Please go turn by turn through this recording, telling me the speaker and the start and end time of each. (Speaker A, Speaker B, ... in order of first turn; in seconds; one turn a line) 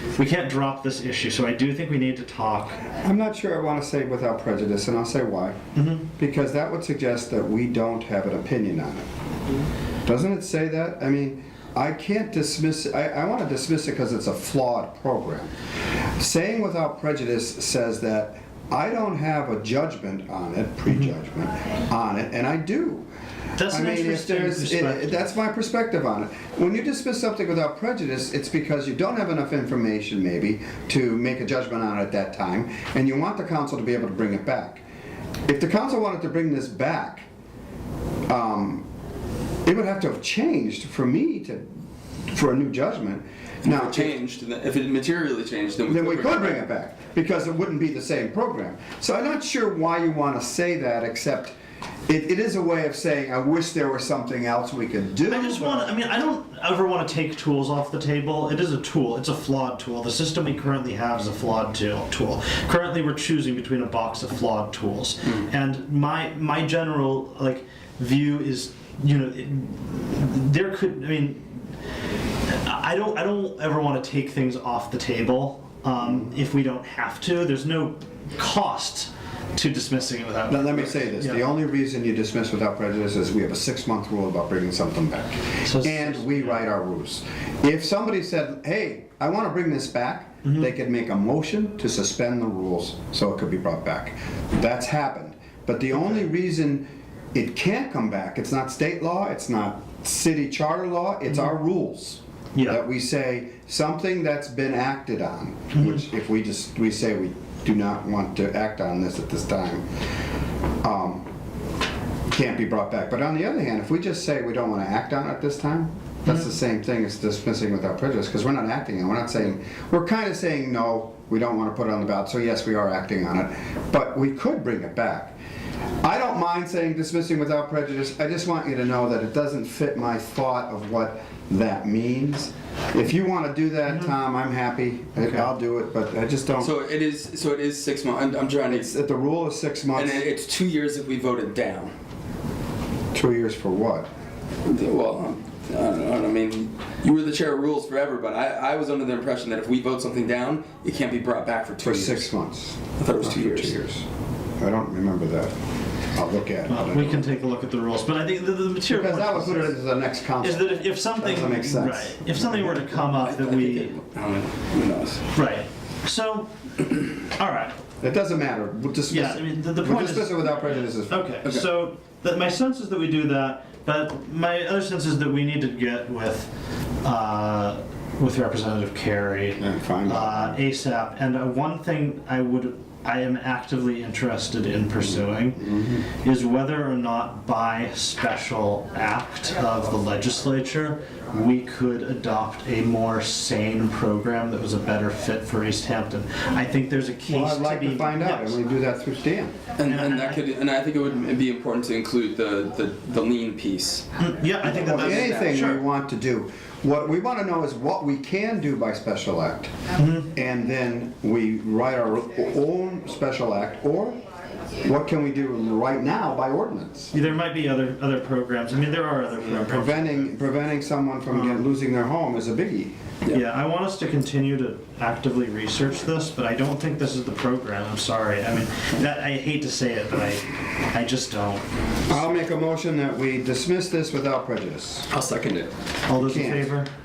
Speaker A: 0.1-2.8
Speaker B: 3.0-9.1
Speaker A: 5.8-6.0
Speaker B: 10.0-15.5
Speaker B: 16.2-23.1
Speaker A: 23.6-25.3
Speaker B: 23.6-34.8
Speaker B: 35.5-37.3
Speaker B: 38.3-38.8
Speaker B: 39.6-41.7
Speaker B: 42.3-44.2
Speaker C: 43.6-46.5
Speaker B: 45.9-51.5
Speaker B: 52.1-55.9
Speaker A: 55.3-71.6
Speaker A: 72.5-81.4
Speaker B: 80.5-109.8
Speaker A: 85.6-86.6
Speaker B: 110.8-111.3
Speaker B: 112.3-125.3
Speaker B: 126.0-136.7
Speaker C: 136.6-138.9
Speaker B: 138.7-140.2
Speaker C: 139.9-141.9
Speaker B: 143.1-144.1
Speaker C: 144.6-152.3
Speaker B: 151.8-154.0
Speaker C: 153.0-153.8
Speaker B: 154.6-155.5
Speaker B: 156.1-157.3
Speaker A: 156.7-159.8
Speaker B: 158.9-162.9
Speaker A: 160.4-163.9
Speaker C: 163.2-165.2
Speaker A: 165.3-166.5
Speaker A: 167.2-167.8
Speaker B: 168.0-171.7
Speaker A: 169.1-176.5
Speaker A: 177.0-198.6
Speaker B: 179.6-180.5
Speaker B: 185.0-186.1
Speaker B: 197.2-199.5
Speaker C: 199.8-204.0
Speaker A: 199.8-200.4
Speaker A: 204.2-205.8
Speaker B: 204.6-209.7
Speaker C: 204.8-205.4
Speaker A: 209.9-210.3
Speaker B: 210.3-214.2
Speaker B: 214.8-217.1
Speaker A: 217.1-220.3
Speaker B: 219.4-223.0
Speaker A: 221.3-221.7
Speaker A: 223.3-232.4
Speaker B: 232.1-235.1
Speaker C: 235.1-235.7
Speaker A: 236.1-236.9
Speaker B: 236.1-236.7